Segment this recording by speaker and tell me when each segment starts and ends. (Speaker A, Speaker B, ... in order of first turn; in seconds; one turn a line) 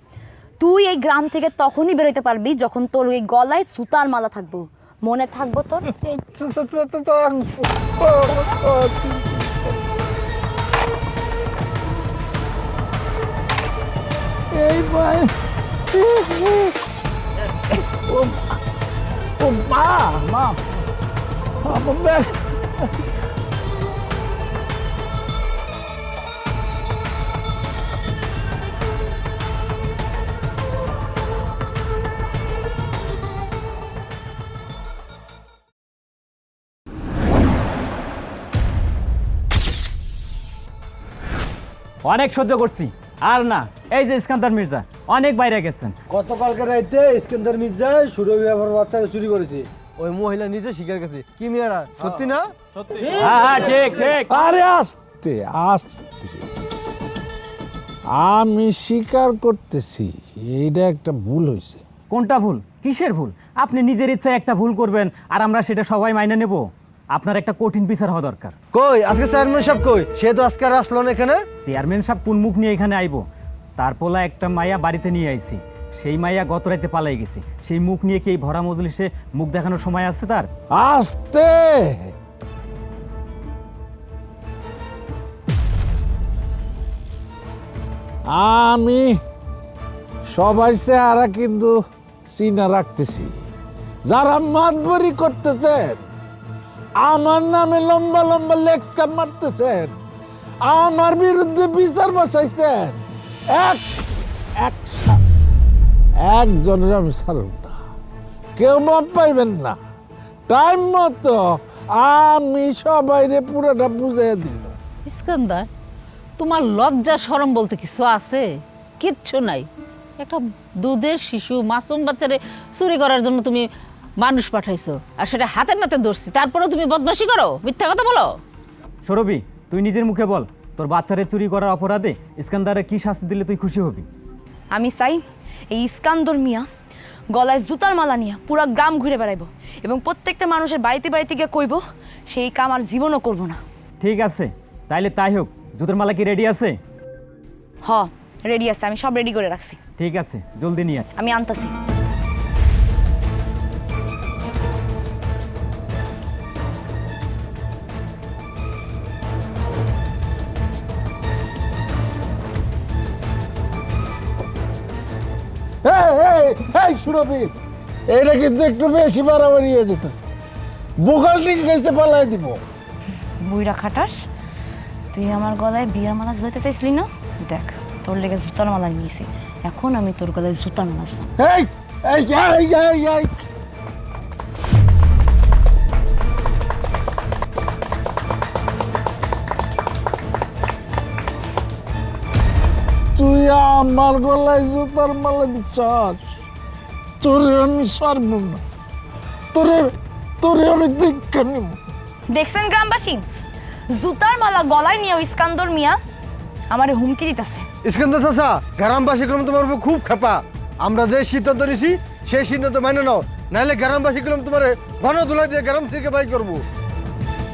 Speaker A: 0.6-5.9
Speaker B: 5.8-9.7
Speaker B: 14.5-15.3
Speaker B: 15.9-16.7
Speaker B: 17.7-18.5
Speaker B: 19.4-20.6
Speaker B: 21.6-22.9
Speaker C: 42.0-45.9
Speaker D: 46.1-53.4
Speaker C: 53.2-54.4
Speaker B: 54.3-56.5
Speaker B: 58.1-61.8
Speaker C: 62.1-68.5
Speaker D: 68.7-71.4
Speaker C: 71.6-73.2
Speaker C: 73.8-80.5
Speaker B: 80.7-82.1
Speaker B: 88.3-89.2
Speaker B: 90.3-91.8
Speaker B: 92.3-93.3
Speaker B: 94.0-96.0
Speaker B: 97.0-100.0
Speaker B: 100.6-104.0
Speaker B: 104.6-105.4
Speaker B: 106.2-107.8
Speaker B: 108.5-109.8
Speaker B: 110.5-114.8
Speaker E: 115.0-115.7
Speaker E: 116.4-119.7
Speaker E: 120.2-128.4
Speaker C: 129.0-134.1
Speaker A: 134.7-136.7
Speaker A: 137.3-143.6
Speaker C: 144.0-146.8
Speaker A: 147.8-149.8
Speaker C: 150.0-151.1
Speaker A: 151.2-151.7
Speaker B: 165.8-167.6
Speaker B: 168.1-170.3
Speaker B: 171.0-172.6
Speaker A: 173.4-174.2
Speaker A: 175.1-181.3
Speaker B: 181.4-183.4
Speaker B: 193.2-196.4
Speaker B: 197.2-198.6
Speaker B: 199.5-201.8
Speaker A: 202.3-203.2
Speaker A: 203.9-206.0
Speaker A: 206.7-207.7
Speaker D: 207.8-216.6